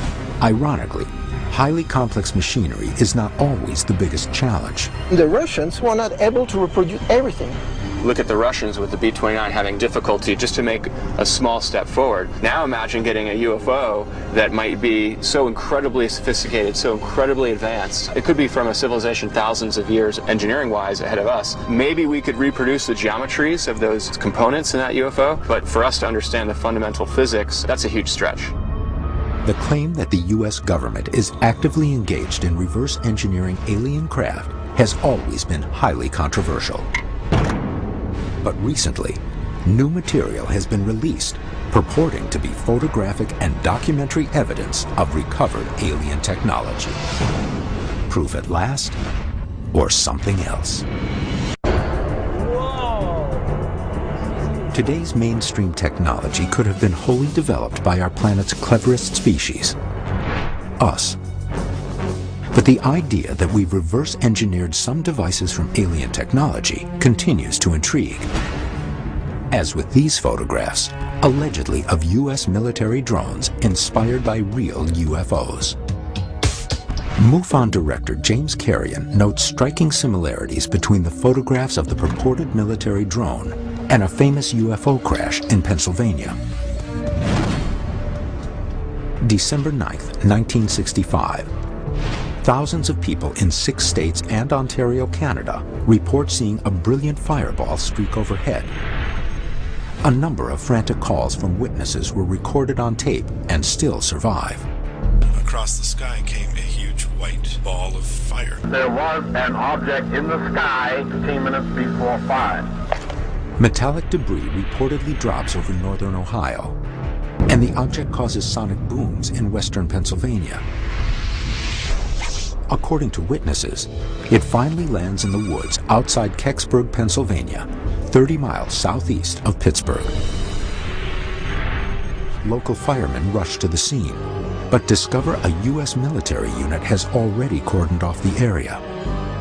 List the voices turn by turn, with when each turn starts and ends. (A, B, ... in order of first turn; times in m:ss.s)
0:00.4-0:04.9 A
0:05.1-0:07.6 B
0:08.0-0:28.5 C
0:29.4-0:36.9 A
0:38.4-0:47.0 A
0:48.1-0:49.0 A
0:49.7-0:50.8 A
0:54.7-0:59.8 A
1:00.8-1:01.2 A
1:02.5-1:08.3 A
1:09.5-1:15.8 A
1:17.2-1:26.4 A
1:29.2-1:31.5 A
1:32.4-1:38.7 A
1:40.0-1:44.6 A
1:45.3-1:48.6 D
1:48.6-1:52.7 E
1:53.6-1:56.8 A
1:57.5-2:00.6 A
2:02.7-2:10.1 A
2:12.4-2:18.8 A